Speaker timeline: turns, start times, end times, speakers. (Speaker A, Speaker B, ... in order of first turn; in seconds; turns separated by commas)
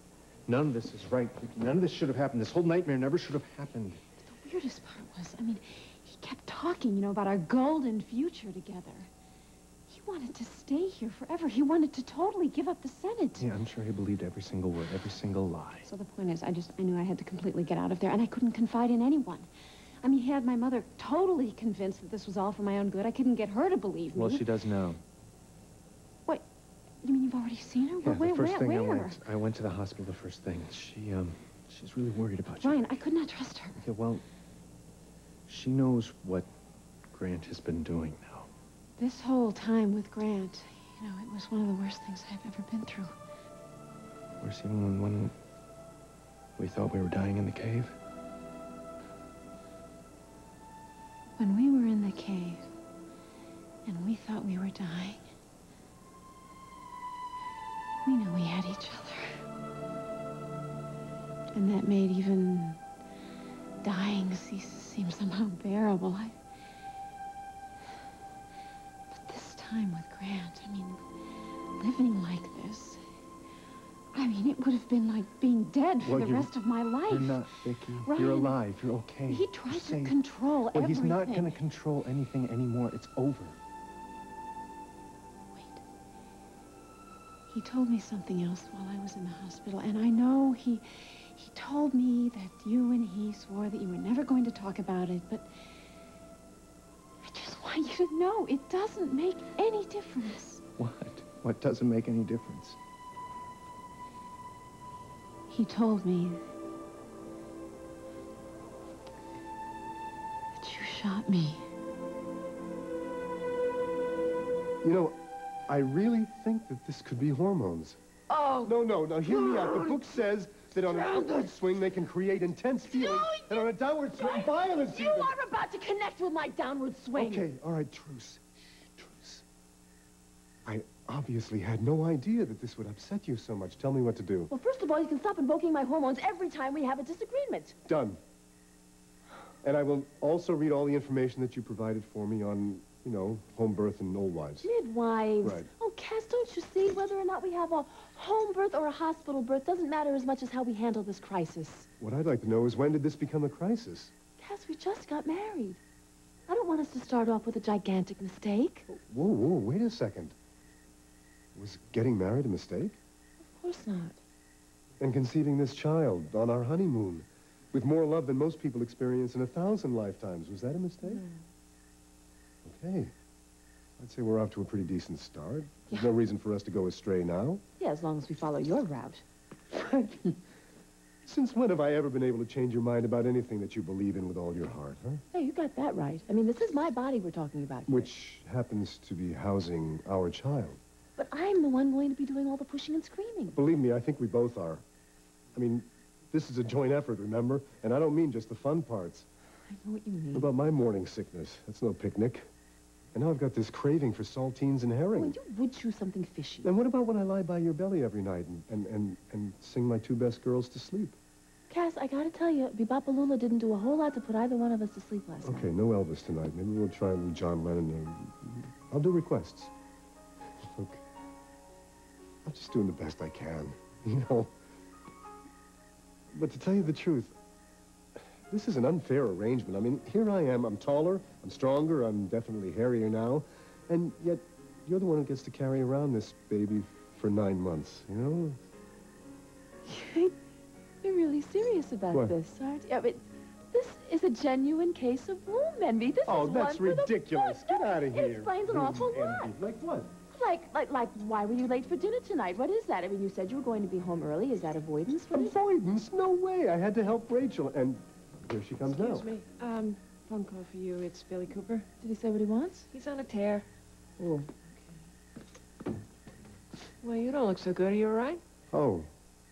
Speaker A: 0.5-4.0, Speaker B: 4.2-9.1, Speaker B: 9.9-13.5, Speaker A: 13.4-15.9, Speaker B: 15.8-19.5, Speaker B: 20.0-24.4, Speaker A: 24.1-25.0, Speaker B: 27.0-29.2, Speaker A: 28.0-32.9, Speaker B: 32.6-33.8, Speaker A: 33.8-34.2, Speaker A: 35.5-36.5, Speaker A: 37.1-38.5, Speaker B: 39.0-43.1, Speaker A: 44.4-45.3, Speaker A: 46.6-47.9, Speaker B: 51.4-52.6, Speaker B: 53.9-55.2, Speaker B: 58.0-59.4, Speaker B: 61.5-62.8, Speaker B: 63.8-66.3, Speaker B: 69.1-71.0, Speaker B: 71.8-73.0, Speaker B: 74.1-78.6, Speaker A: 76.0-76.5, Speaker A: 77.1-80.2, Speaker B: 79.3-81.5, Speaker A: 80.7-83.6, Speaker B: 85.5-85.8, Speaker B: 87.5-95.5, Speaker B: 97.2-100.6, Speaker A: 100.8-102.8, Speaker B: 105.5-106.4, Speaker B: 110.5-111.7, Speaker C: 114.8-115.2, Speaker C: 115.7-118.0, Speaker D: 118.3-118.7, Speaker C: 118.7-125.3, Speaker D: 119.2-120.1, Speaker D: 120.9-121.4, Speaker D: 122.9-127.5, Speaker C: 127.1-128.4, Speaker C: 129.0-129.4, Speaker C: 130.7-134.5, Speaker D: 134.5-137.8, Speaker C: 137.8-138.2, Speaker C: 139.6-144.7, Speaker D: 144.6-151.9, Speaker C: 145.4-145.7, Speaker C: 152.0-154.1, Speaker D: 154.4-155.8, Speaker D: 156.5-158.8, Speaker C: 158.9-160.3, Speaker C: 161.5-163.0, Speaker D: 163.5-164.2, Speaker C: 165.0-171.2, Speaker D: 171.0-171.4, Speaker C: 172.6-173.1, Speaker C: 174.0-177.6, Speaker D: 177.8-179.2, Speaker C: 179.7-180.4, Speaker C: 181.2-185.2, Speaker D: 185.3-188.1, Speaker C: 187.9-190.8, Speaker D: 191.2-193.6, Speaker C: 193.5-194.8, Speaker C: 195.5-199.2, Speaker D: 199.7-200.5, Speaker C: 200.3-202.4, Speaker C: 203.1-205.4, Speaker D: 205.1-206.7, Speaker C: 206.6-211.2, Speaker D: 211.7-215.7, Speaker C: 215.4-219.7, Speaker C: 220.7-221.0, Speaker C: 222.4-224.5, Speaker C: 226.3-227.3, Speaker C: 228.5-238.6, Speaker D: 239.8-240.3, Speaker D: 241.0-249.5, Speaker C: 246.2-250.1, Speaker D: 250.3-255.6, Speaker C: 255.3-259.3, Speaker E: 258.9-261.9, Speaker D: 262.0-263.3, Speaker E: 262.9-263.6, Speaker E: 264.2-264.6, Speaker E: 267.0-268.4, Speaker C: 268.7-269.1